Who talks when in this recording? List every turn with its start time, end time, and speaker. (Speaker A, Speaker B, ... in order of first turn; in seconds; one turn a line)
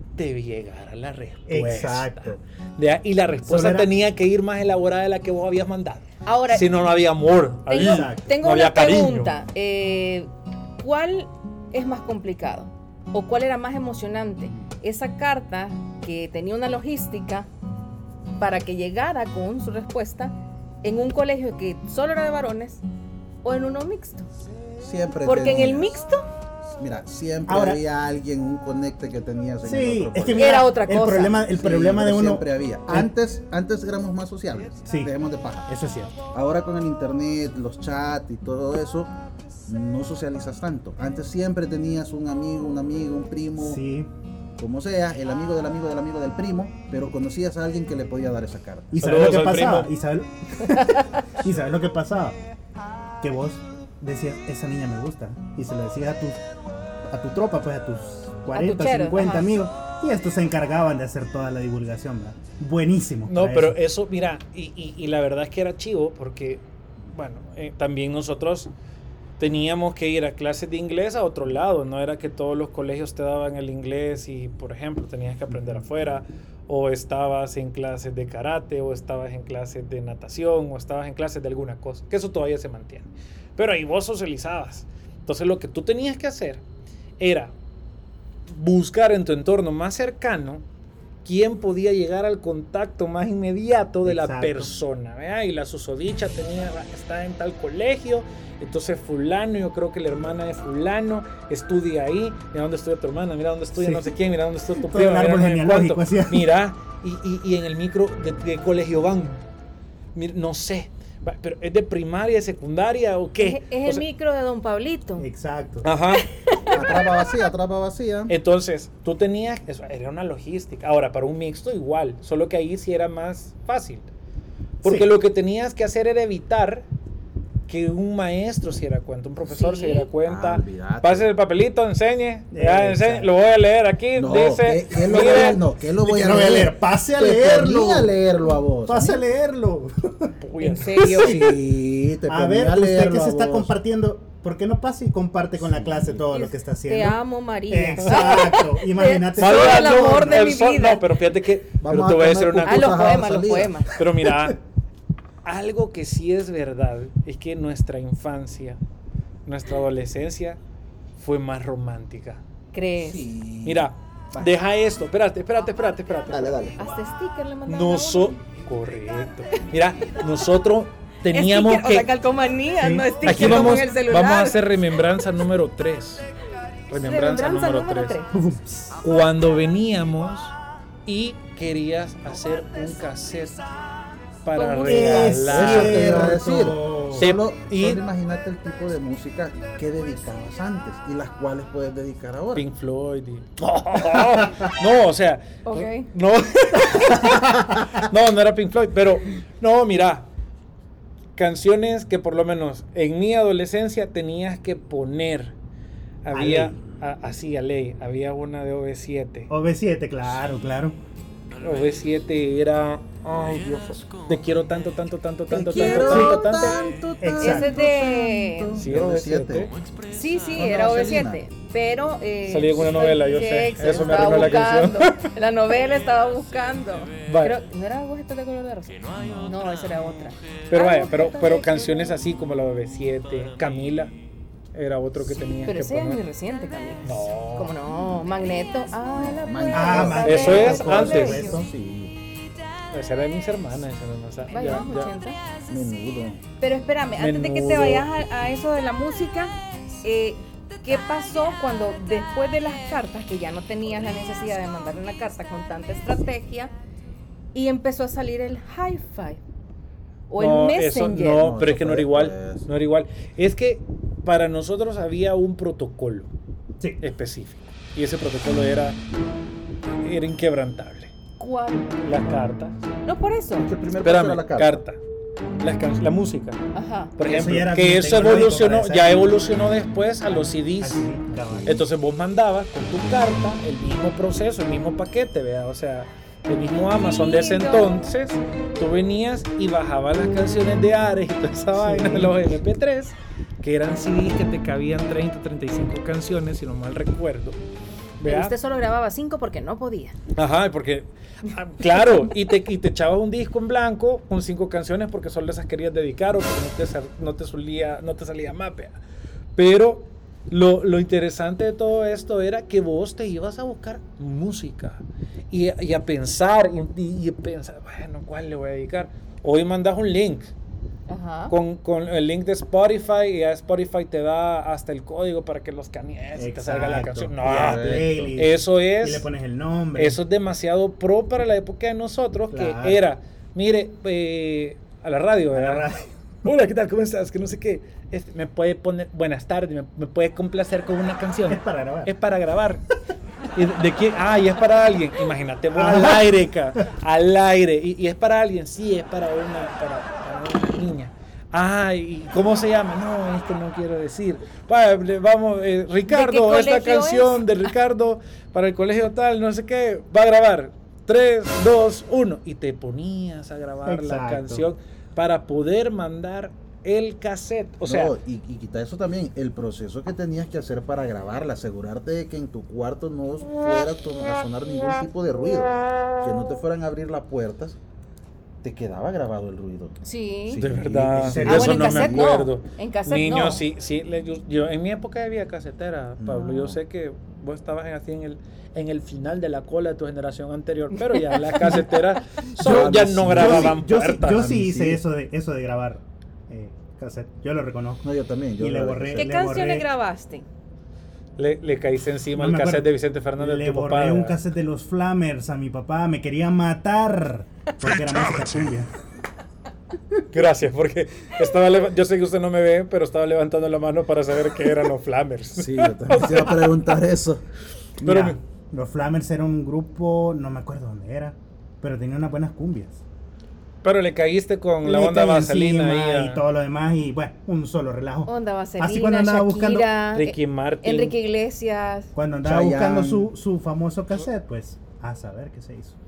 Speaker A: 0.1-9.3
Speaker B: 1.5-2.4
Speaker B: 3.4-3.9
Speaker C: 6.3-6.7
Speaker C: 7.7-17.5
Speaker B: 7.7-8.4
Speaker B: 8.9-9.3
Speaker C: 18.4-22.8
Speaker C: 23.4-24.3
Speaker D: 24.8-26.0
Speaker C: 25.2-26.2
Speaker D: 26.8-30.7
Speaker B: 27.5-27.8
Speaker B: 29.6-33.1
Speaker C: 30.4-31.4
Speaker D: 31.5-35.7
Speaker B: 34.9-35.1
Speaker B: 35.7-36.2
Speaker D: 36.3-39.1
Speaker D: 39.7-43.8
Speaker B: 43.6-44.1
Speaker D: 44.6-49.0
Speaker B: 48.9-52.4
Speaker A: 49.0-49.9
Speaker C: 50.8-51.2
Speaker B: 53.2-56.4
Speaker B: 57.1-63.8
Speaker C: 58.5-59.5
Speaker A: 63.3-68.7
Speaker A: 69.4-86.6
Speaker A: 87.2-87.5
Speaker A: 88.5-90.7
Speaker A: 91.2-109.4
Speaker B: 94.0-94.7
Speaker B: 103.8-104.1
Speaker B: 104.8-106.5
Speaker A: 110.2-114.0
Speaker C: 113.4-115.3
Speaker B: 115.2-115.9
Speaker A: 115.8-116.3
Speaker C: 116.5-117.0
Speaker D: 116.7-118.3
Speaker A: 118.3-124.1
Speaker A: 124.8-126.9
Speaker B: 124.8-125.1
Speaker A: 127.7-135.6
Speaker C: 129.5-130.1
Speaker D: 130.2-131.3
Speaker B: 132.5-133.3
Speaker D: 134.2-139.2
Speaker B: 136.0-138.2
Speaker B: 138.9-140.3
Speaker A: 140.4-141.2
Speaker C: 140.6-141.6
Speaker B: 140.9-141.6
Speaker D: 141.1-143.7
Speaker B: 142.3-150.2
Speaker D: 145.6-146.2
Speaker C: 146.3-151.1
Speaker A: 149.4-153.1
Speaker D: 151.8-153.9
Speaker C: 152.7-153.9
Speaker A: 153.9-154.6
Speaker A: 155.4-158.8
Speaker A: 159.5-160.6
Speaker A: 161.2-162.4
Speaker C: 162.7-163.3
Speaker D: 163.0-164.5
Speaker A: 163.7-166.7
Speaker D: 166.3-166.8
Speaker C: 166.8-168.4
Speaker A: 167.7-172.1
Speaker C: 171.3-174.6
Speaker B: 172.8-173.8
Speaker A: 173.2-176.3
Speaker A: 176.9-178.2
Speaker C: 177.0-178.3
Speaker B: 178.3-178.9
Speaker A: 179.0-180.6
Speaker A: 181.1-183.7
Speaker A: 184.4-186.4
Speaker C: 184.6-185.5
Speaker B: 184.9-187.3
Speaker D: 185.4-192.7
Speaker A: 187.1-188.0
Speaker A: 192.6-200.3
Speaker C: 195.7-196.1
Speaker A: 201.4-205.6
Speaker A: 206.2-209.5
Speaker B: 206.3-206.8
Speaker B: 209.5-211.0
Speaker A: 211.6-216.8
Speaker D: 215.5-219.7
Speaker C: 215.7-216.8
Speaker B: 216.1-216.4
Speaker B: 217.2-217.8
Speaker C: 217.4-218.8
Speaker A: 218.7-219.7
Speaker C: 220.1-232.0
Speaker D: 220.6-221.4
Speaker A: 222.5-225.3
Speaker A: 227.2-227.6
Speaker A: 230.7-234.1
Speaker A: 234.7-236.2
Speaker C: 235.6-241.6
Speaker A: 237.0-237.7
Speaker D: 239.2-242.2
Speaker B: 239.7-241.7
Speaker A: 240.2-241.4
Speaker A: 242.9-245.1
Speaker C: 244.5-245.4
Speaker D: 245.7-246.4
Speaker C: 246.6-256.7
Speaker A: 247.2-248.1
Speaker C: 257.5-259.4
Speaker C: 260.3-261.5
Speaker A: 260.4-266.3
Speaker D: 261.3-262.7
Speaker A: 267.0-269.0
Speaker A: 270.0-271.1
Speaker C: 271.4-272.0
Speaker A: 272.0-272.8
Speaker C: 273.1-273.7
Speaker D: 273.6-274.8
Speaker A: 274.0-275.0
Speaker A: 275.6-276.6
Speaker C: 276.7-277.1
Speaker A: 277.2-281.1
Speaker B: 277.3-279.4
Speaker B: 280.8-281.8
Speaker A: 281.6-297.6
Speaker C: 286.9-288.1
Speaker B: 291.8-292.4
Speaker A: 298.2-298.5
Speaker C: 298.2-300.2
Speaker A: 300.4-309.0
Speaker A: 309.6-320.5
Speaker C: 321.1-321.5
Speaker A: 321.5-329.3
Speaker B: 326.4-330.2
Speaker D: 327.4-328.4
Speaker A: 329.9-335.9
Speaker B: 332.5-333.0
Speaker B: 335.5-336.1
Speaker A: 336.4-342.8
Speaker B: 341.5-342.1
Speaker A: 343.6-368.1
Speaker B: 345.7-346.3
Speaker C: 356.1-357.7
Speaker B: 363.9-364.7
Speaker D: 367.8-377.8
Speaker D: 378.6-382.3
Speaker C: 380.0-380.6
Speaker A: 380.6-394.5
Speaker B: 381.2-381.9
Speaker C: 381.4-383.6
Speaker D: 386.2-386.8
Speaker D: 392.6-395.0
Speaker B: 392.7-398.1
Speaker D: 398.0-399.3
Speaker B: 398.6-399.9
Speaker C: 399.1-400.5
Speaker A: 401.4-404.4
Speaker B: 402.4-408.9
Speaker A: 410.3-416.8
Speaker D: 415.6-417.4
Speaker A: 418.0-418.4
Speaker B: 418.0-423.0
Speaker A: 423.8-426.4
Speaker B: 424.8-429.9
Speaker C: 428.3-432.1
Speaker A: 430.1-431.2
Speaker B: 432.1-436.0
Speaker D: 432.4-433.3